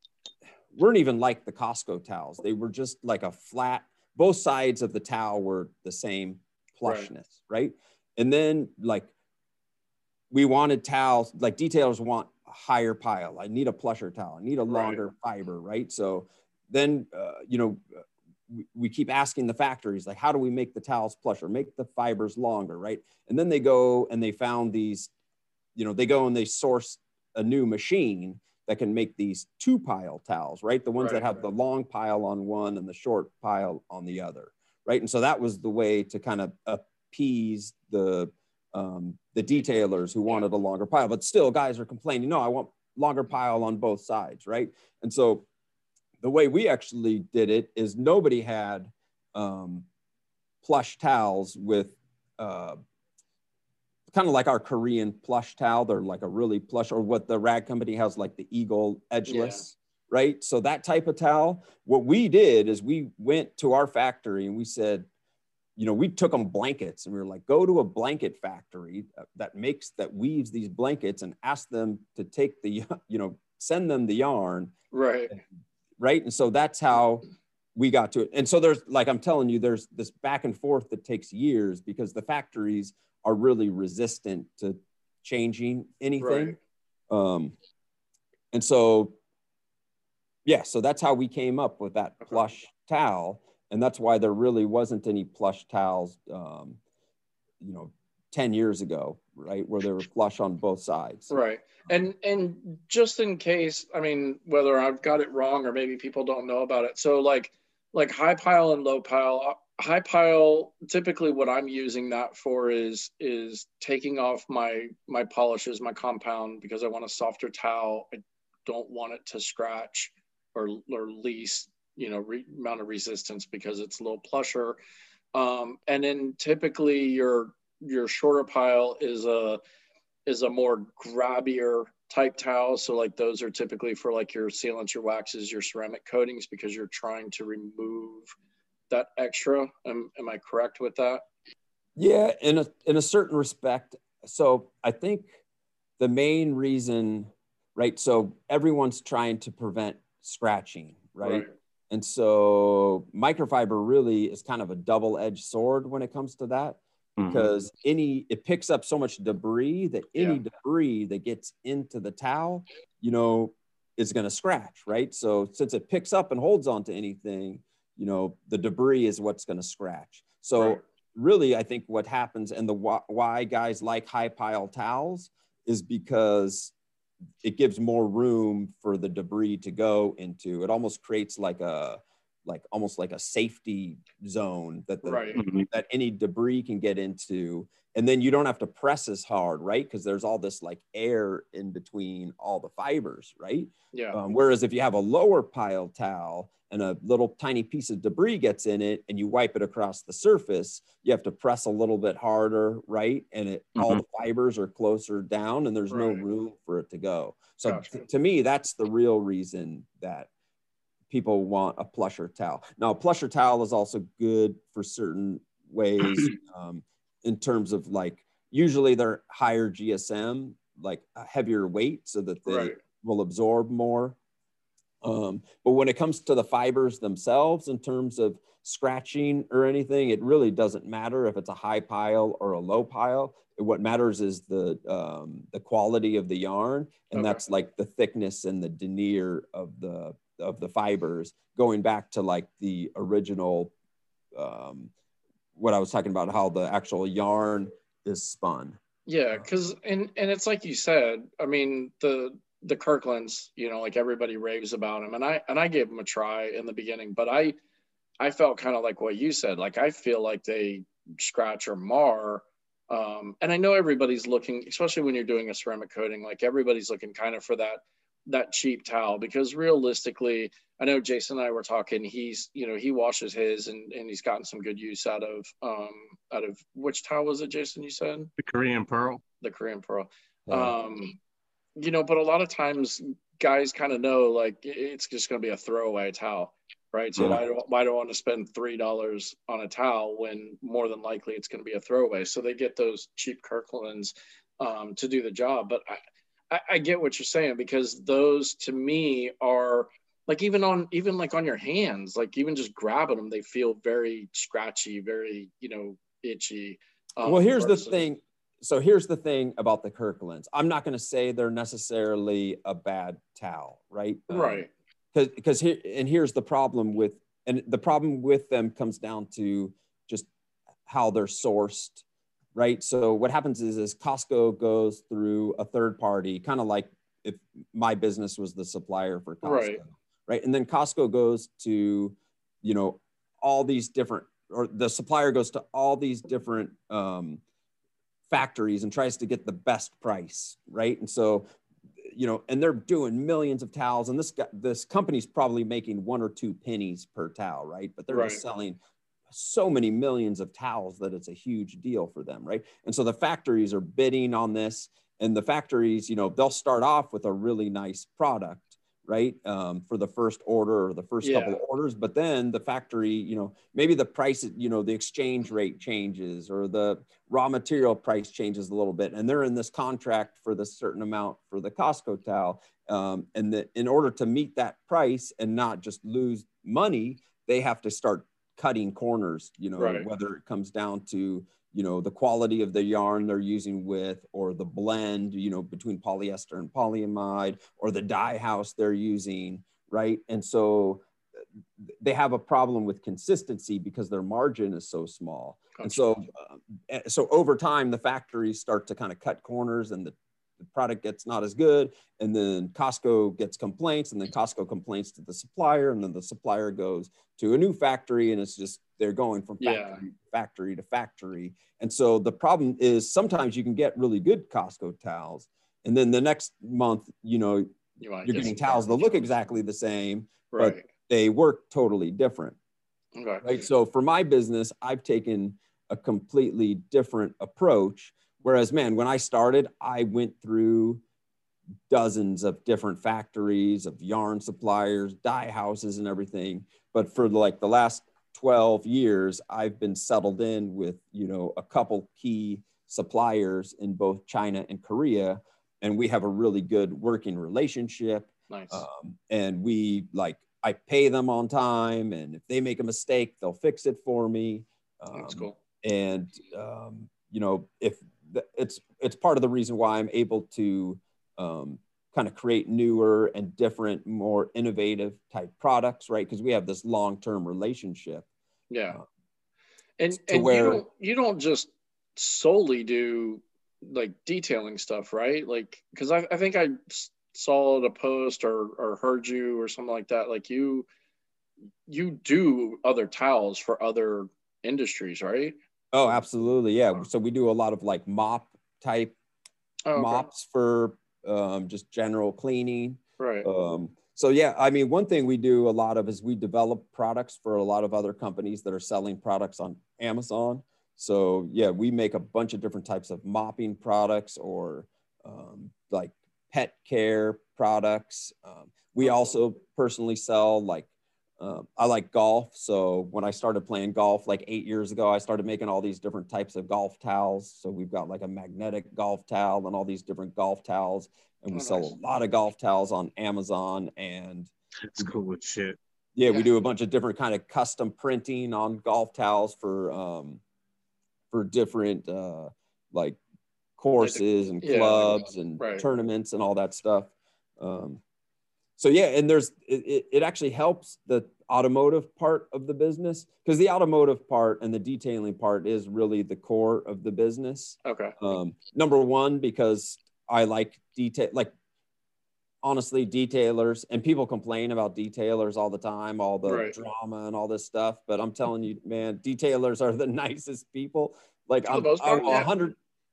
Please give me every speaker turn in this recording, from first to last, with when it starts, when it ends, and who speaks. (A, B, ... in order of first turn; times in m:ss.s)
0:00.7-0:09.1 A
0:06.8-0:07.1 B
0:10.3-0:25.1 A
0:14.7-0:15.0 B
0:25.7-0:45.4 A
0:31.0-0:31.4 B
0:46.2-0:49.8 A
0:50.6-0:52.8 A
0:54.1-1:05.1 A
0:59.3-0:59.6 B
1:05.8-1:14.7 A
1:14.9-1:15.3 B
1:16.0-1:26.6 A
1:26.2-1:26.6 B
1:27.1-1:27.5 A
1:28.5-1:29.1 A
1:30.4-1:36.8 A
1:37.6-1:41.4 A
1:41.3-2:04.8 B
2:05.3-2:09.6 B
2:10.2-2:18.3 B
2:18.9-2:21.2 B
2:22.0-2:25.4 A
2:26.0-2:56.7 A
2:31.2-2:31.5 B
2:37.2-2:37.5 C
2:57.4-3:30.3 A
3:05.0-3:05.4 B
3:05.4-3:05.7 C
3:13.9-3:14.2 B
3:23.8-3:24.0 C
3:25.9-3:26.2 B
3:27.6-3:28.0 B
3:31.1-3:44.2 A
3:42.4-3:42.8 B
3:45.0-4:03.7 A
3:57.1-3:57.4 B
4:04.3-4:04.9 A
4:05.6-4:08.8 A
4:09.1-4:17.6 B
4:18.2-4:38.3 B
4:38.4-4:39.2 C
4:39.4-4:41.2 B
4:40.5-4:40.7 A
4:41.8-4:56.0 B
4:56.5-5:08.0 B
5:07.2-5:20.3 A
5:14.3-5:14.7 B
5:20.8-5:22.0 A
5:22.5-5:37.4 A
5:29.4-5:29.8 B
5:38.3-5:41.4 A
5:42.0-5:48.8 A
5:48.1-5:48.4 B
5:49.3-6:31.0 A
6:01.2-6:01.6 B
6:19.8-6:20.1 B
6:32.0-7:02.6 A
6:35.7-6:36.0 B
6:49.6-6:50.0 B
6:58.0-6:59.2 B
7:00.5-7:00.8 B
7:03.2-7:03.5 B
7:03.4-7:11.0 A
7:11.9-7:48.2 A
7:28.5-7:28.8 B
7:35.1-7:35.6 B
7:48.7-7:49.0 B
7:50.0-8:00.9 B
7:50.1-7:50.8 A
8:01.9-8:05.6 B
8:05.9-8:09.1 A
8:09.8-8:10.3 B
8:09.9-8:30.9 A
8:13.2-8:13.5 B
8:29.0-8:29.4 B
8:31.4-8:45.1 A
8:41.5-8:41.9 B
8:44.9-8:45.8 C
8:46.1-8:50.4 A
8:51.3-8:53.2 A
8:53.8-8:58.0 A
8:54.0-8:55.8 B
8:58.8-9:11.5 A
9:07.8-9:08.2 B
9:12.6-9:22.8 A
9:16.4-9:16.8 B
9:21.7-9:22.5 B